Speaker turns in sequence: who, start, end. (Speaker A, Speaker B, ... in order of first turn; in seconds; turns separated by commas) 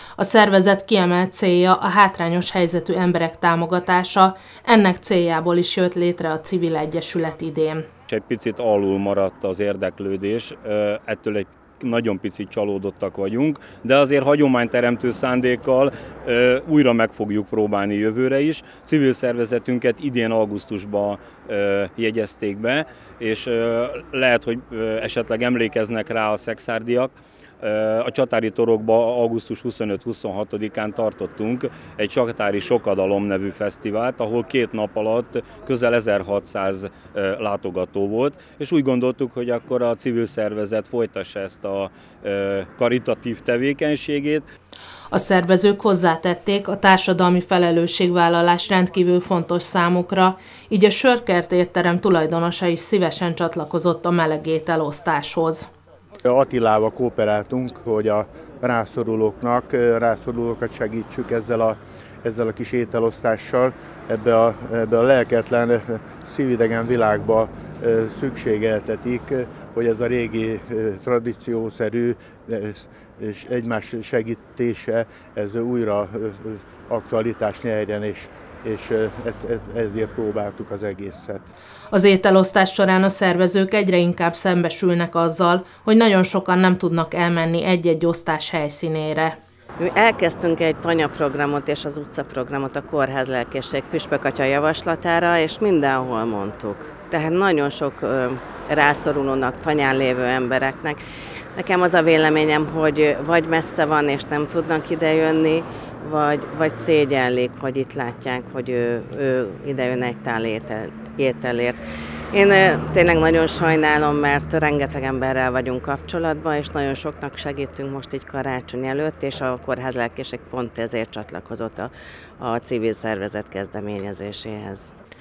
Speaker A: 0.2-7.9, Speaker B: 8.1-44.5, Speaker A: 45.1-55.7, Speaker C: 56.2-81.5, Speaker A: 81.9-89.4, Speaker D: 89.8-101.0, Speaker D: 101.5-111.8, Speaker D: 112.3-124.9